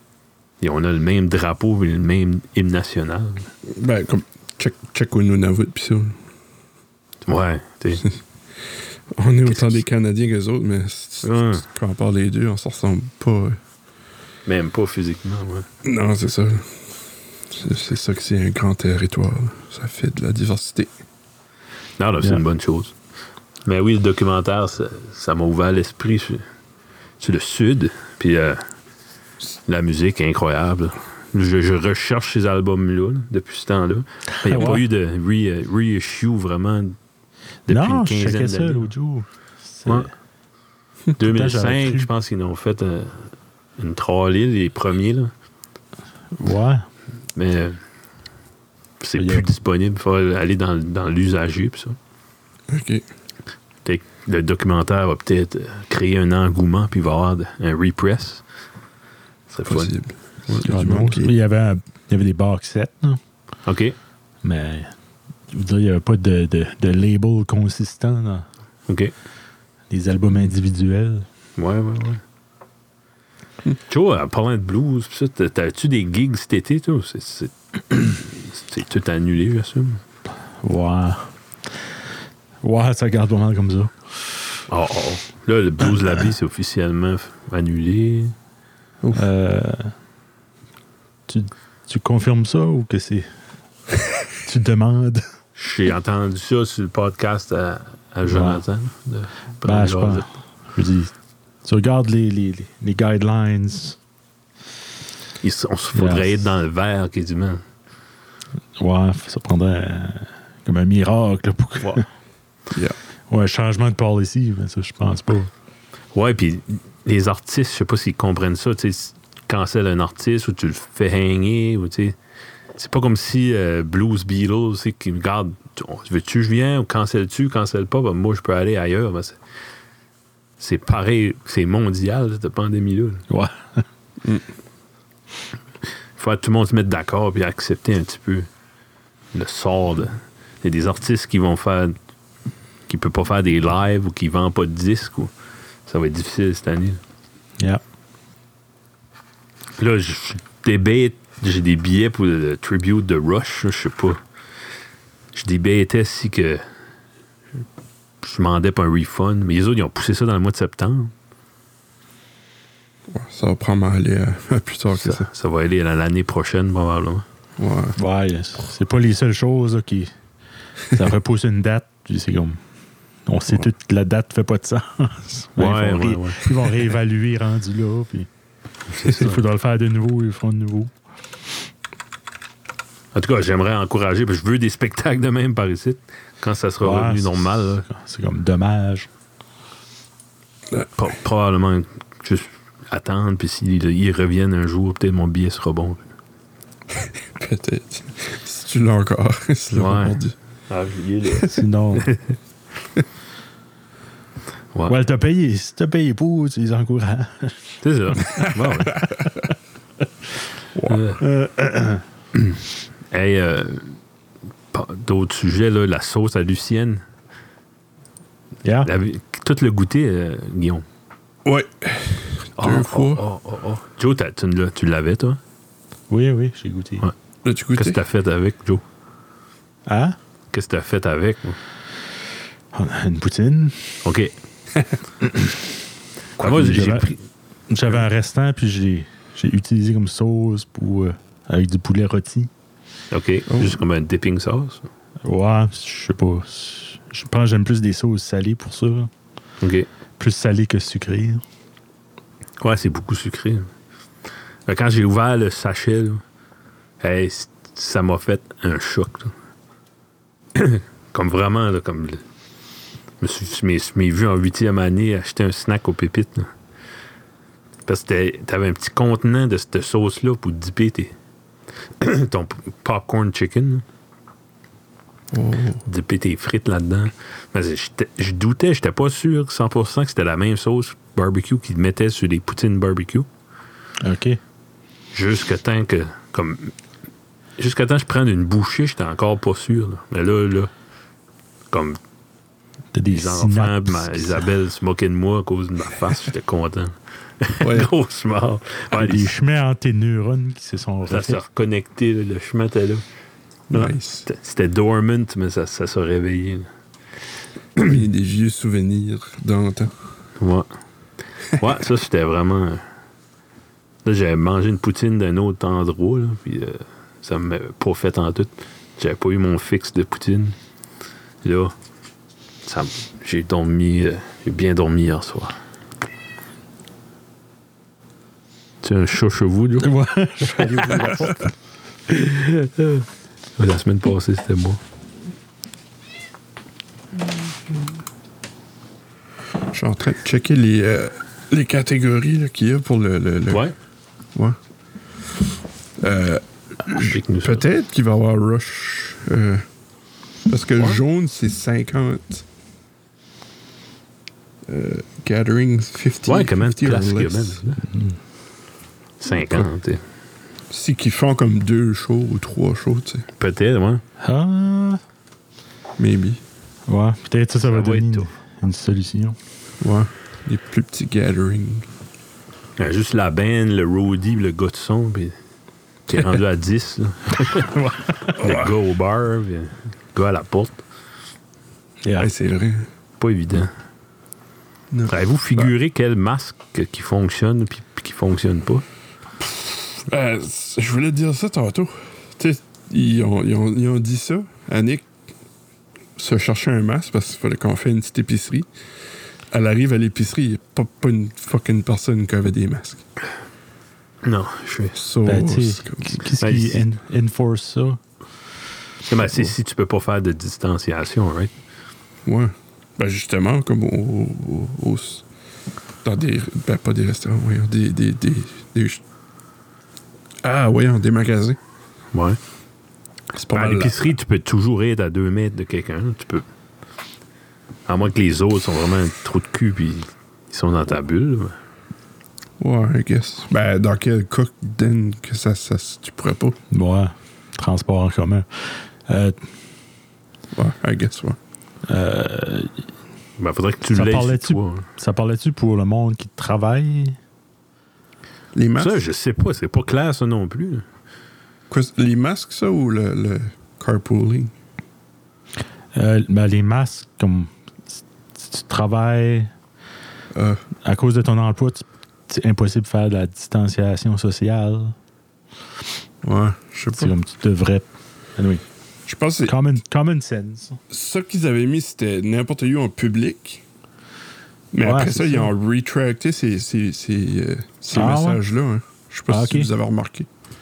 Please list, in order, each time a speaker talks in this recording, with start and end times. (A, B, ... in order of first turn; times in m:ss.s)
0:00.6-0:03.5 A
0:03.7-0:06.2 B
0:07.3-0:08.1 A
0:09.1-0:13.6 B
0:09.5-0:09.8 A
0:11.2-0:11.7 A
0:14.5-0:15.7 A
0:15.8-0:16.9 B
0:17.5-0:20.9 B
0:22.0-0:22.9 A
0:23.7-0:26.4 A
0:27.2-0:28.6 A
0:29.7-0:37.0 A
0:34.4-0:34.8 C
0:37.7-0:38.9 A
0:37.7-0:40.1 C
0:41.2-0:45.3 A
0:41.2-0:42.1 C
0:46.4-0:46.9 C
0:47.4-0:47.8 A
0:49.0-0:52.0 A
0:49.2-0:49.4 C
0:52.7-0:53.0 B
0:53.8-0:58.4 A
0:59.5-1:00.0 A
0:59.7-1:01.3 B
1:00.6-1:03.2 C
1:03.7-1:04.0 A
1:04.4-1:04.9 C
1:05.5-1:08.5 C
1:08.9-1:09.1 A
1:09.9-1:11.3 C
1:11.6-1:12.2 A
1:13.9-1:20.0 A
1:20.6-1:21.3 C
1:22.6-1:23.9 C
1:24.7-1:28.4 A
1:29.2-1:29.9 C
1:31.3-1:33.3 C
1:34.4-1:35.2 C
1:35.6-1:40.3 A
1:38.3-1:38.6 C
1:39.6-1:41.1 C
1:41.6-1:44.0 C
1:45.4-1:47.6 A
1:45.9-1:46.4 C
1:48.8-1:52.0 C
1:52.7-1:53.0 B
1:53.3-1:55.5 C
1:56.1-2:02.2 A
2:02.8-2:09.4 A
2:10.6-2:13.2 A
2:13.3-2:13.8 C
2:16.2-2:18.5 A
2:19.3-2:22.0 A
2:22.9-2:25.3 A
2:25.9-2:27.0 A
2:29.8-2:34.2 A
2:35.3-2:36.6 A
2:38.2-2:41.1 A
2:43.1-2:45.3 B
2:45.0-2:47.2 A
2:47.6-2:48.0 B
2:48.0-2:50.1 C
2:50.9-2:52.6 C
2:53.3-2:58.3 C
2:55.6-2:56.5 A
2:58.9-2:59.4 A
2:59.0-3:00.9 C
3:03.1-3:07.8 A
3:06.8-3:09.1 C
3:11.0-3:16.0 A
3:16.9-3:20.4 B
3:19.7-3:20.2 A
3:20.7-3:22.3 A
3:21.5-3:22.1 C
3:24.9-3:27.8 C
3:27.8-3:29.0 A
3:30.8-3:31.0 B
3:30.9-3:31.2 A
3:31.2-3:32.0 C
3:33.1-3:34.0 A
3:34.7-3:37.0 A
3:38.6-3:38.9 C
3:38.8-3:40.8 A
3:41.4-3:43.2 B
3:42.6-3:45.4 A
3:46.1-3:47.0 C
3:47.4-3:48.0 B
3:47.8-3:48.8 A
3:49.9-3:50.2 C
3:50.5-3:51.6 A
3:52.7-3:54.0 C
3:54.0-3:54.3 A
3:56.4-3:57.2 A
3:56.4-3:57.1 C
3:57.7-4:02.5 C
4:03.1-4:04.9 A
4:03.5-4:03.8 B
4:05.2-4:09.1 C
4:09.6-4:09.9 A
4:10.2-4:11.4 C
4:12.6-4:13.7 A
4:14.7-4:16.2 A
4:17.0-4:19.3 A
4:20.6-4:22.2 A
4:23.2-4:26.5 A
4:27.9-4:31.1 A
4:32.0-4:33.8 A
4:35.3-4:35.8 B
4:35.9-4:43.3 A
4:44.0-4:44.4 C
4:45.1-4:46.7 A
4:47.6-4:50.7 A
4:51.7-4:52.0 A
4:52.9-4:54.5 C
4:53.1-4:59.3 A
4:57.6-4:57.9 B
4:58.9-5:01.4 C
5:01.1-5:03.0 A
5:03.7-5:04.3 B
5:03.7-5:06.7 A
5:07.8-5:09.9 B
5:10.4-5:10.7 A
5:11.5-5:12.8 A
5:14.0-5:20.6 A
5:21.4-5:21.7 A
5:22.6-5:25.6 A
5:28.8-5:29.9 A
5:29.8-5:31.5 C
5:30.5-5:31.1 A
5:32.1-5:33.1 A
5:33.6-5:34.8 A
5:39.7-5:43.7 B
5:46.0-5:49.7 B
5:46.9-5:47.6 A
5:50.5-5:52.4 B
5:54.7-5:57.6 B
5:56.3-5:57.8 A
5:57.9-5:58.2 C
5:59.2-6:00.0 A
5:59.3-5:59.7 B
6:00.7-6:03.3 B
6:03.4-6:04.0 A
6:04.2-6:05.0 C
6:06.0-6:06.4 B
6:06.9-6:09.4 C
6:07.7-6:08.3 A
6:09.8-6:11.9 B
6:12.8-6:15.4 A
6:16.1-6:17.7 A
6:17.6-6:18.4 C
6:18.3-6:20.8 A
6:18.4-6:18.7 B
6:22.0-6:22.3 C
6:22.2-6:22.9 B
6:23.2-6:23.7 A
6:24.9-6:25.7 B
6:25.1-6:28.8 A
6:29.6-6:35.1 B
6:36.2-6:38.7 B
6:39.5-6:43.0 B
6:44.2-6:45.0 A
6:44.9-6:46.2 B
6:45.2-6:48.0 C
6:46.4-6:46.8 A
6:49.1-6:51.5 A
6:52.2-6:55.2 B
6:56.0-6:59.0 B
7:00.4-7:01.6 B
7:02.1-7:02.4 A
7:03.3-7:04.0 B
7:03.5-7:06.4 A
7:07.9-7:11.6 A
7:12.6-7:16.6 B
7:16.7-7:19.4 C
7:20.5-7:21.4 B
7:21.9-7:22.7 C
7:23.4-7:24.9 A
7:23.9-7:27.2 C
7:28.6-7:29.0 B
7:28.8-7:30.8 A
7:31.7-7:34.5 B
7:35.9-7:39.5 C
7:40.3-7:40.6 B
7:40.8-7:45.0 C
7:46.2-7:47.1 B
7:47.0-7:48.6 C
7:49.1-7:49.5 B
7:49.5-7:50.8 C
7:50.9-7:53.6 B
7:54.7-8:00.3 B
7:54.8-7:55.5 C
7:57.9-7:58.4 C
7:59.3-7:59.7 C